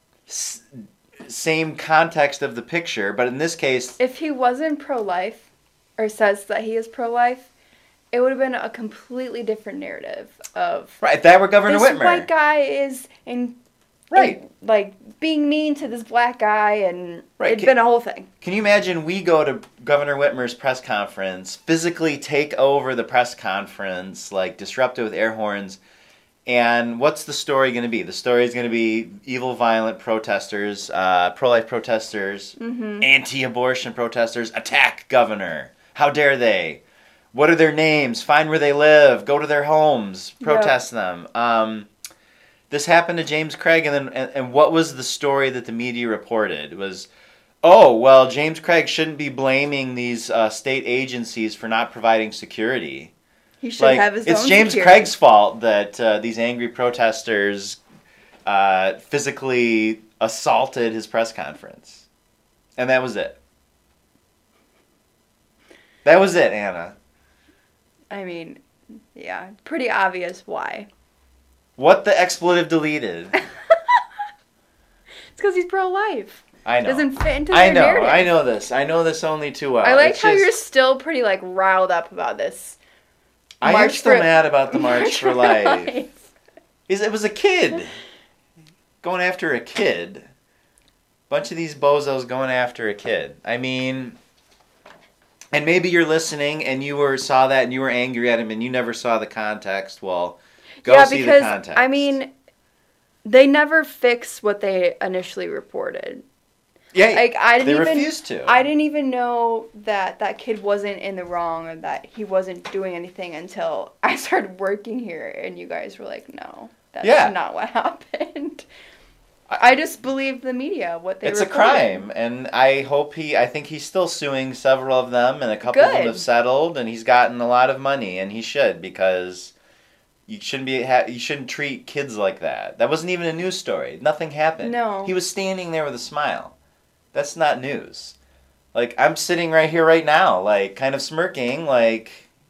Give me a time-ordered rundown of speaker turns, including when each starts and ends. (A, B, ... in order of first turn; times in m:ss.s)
0:00.3-0:04.0 A
0:04.0-0:05.5 B
0:06.0-0:07.5 B
0:08.1-0:11.0 B
0:11.0-0:12.3 A
0:11.6-0:13.6 B
0:14.1-0:14.4 A
0:14.1-0:18.3 B
0:17.4-0:17.7 A
0:18.4-0:25.8 A
0:26.5-0:36.8 A
0:32.6-0:33.1 B
0:37.3-0:41.9 A
0:40.4-0:40.8 B
0:42.7-0:47.1 A
0:47.6-0:53.1 A
0:53.6-0:55.1 B
0:53.8-0:57.8 A
0:58.4-1:02.1 A
1:02.8-1:03.4 A
1:06.0-1:07.0 A
1:08.1-1:08.6 B
1:09.2-1:10.9 B
1:11.8-1:13.4 A
1:13.7-1:14.0 B
1:15.4-1:18.3 B
1:16.6-1:20.5 A
1:19.8-1:22.8 B
1:23.6-1:25.9 A
1:23.6-1:26.3 B
1:26.9-1:28.0 A
1:29.0-1:30.3 A
1:31.3-1:34.2 A
1:35.5-1:42.2 A
1:40.8-1:42.3 B
1:43.2-1:46.2 B
1:46.9-1:48.6 A
1:47.1-1:58.7 B
1:57.0-1:57.3 A
1:59.5-2:02.0 B
2:01.2-2:09.5 A
2:05.6-2:06.2 B
2:10.3-2:16.6 A
2:14.6-2:15.2 B
2:17.1-2:18.2 A
2:18.7-2:22.3 A